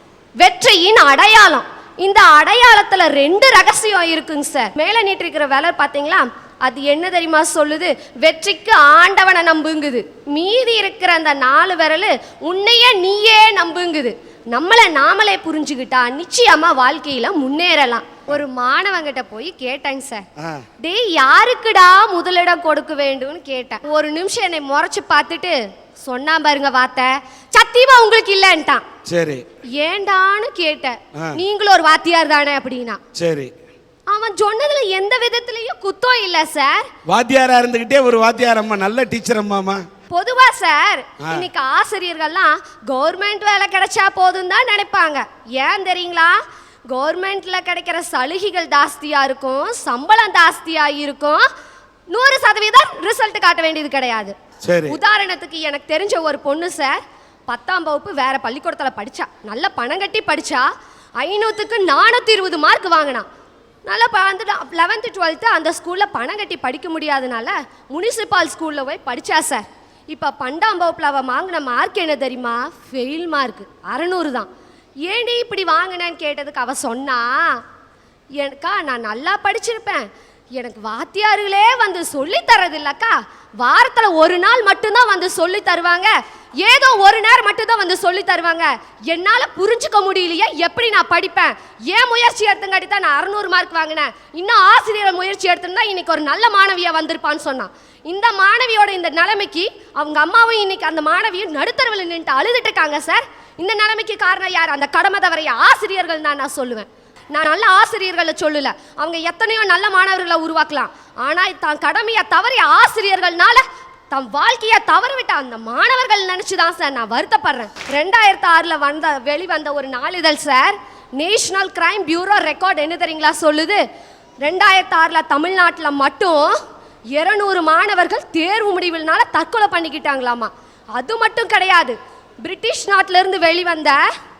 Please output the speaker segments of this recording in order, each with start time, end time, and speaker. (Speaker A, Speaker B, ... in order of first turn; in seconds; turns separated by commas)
Speaker A: 0.4-20.2, Speaker A: 20.8-28.8, Speaker B: 29.1-29.4, Speaker A: 29.8-33.0, Speaker B: 33.1-33.5, Speaker A: 34.1-36.9, Speaker B: 37.1-39.8, Speaker A: 40.1-46.4, Speaker A: 46.9-51.5, Speaker A: 52.1-54.3, Speaker B: 54.6-54.9, Speaker A: 54.9-60.6, Speaker A: 61.2-63.2, Speaker A: 63.9-74.5, Speaker A: 75.0-77.6, Speaker A: 78.4-123.8, Speaker A: 124.4-126.5, Speaker A: 127.1-134.0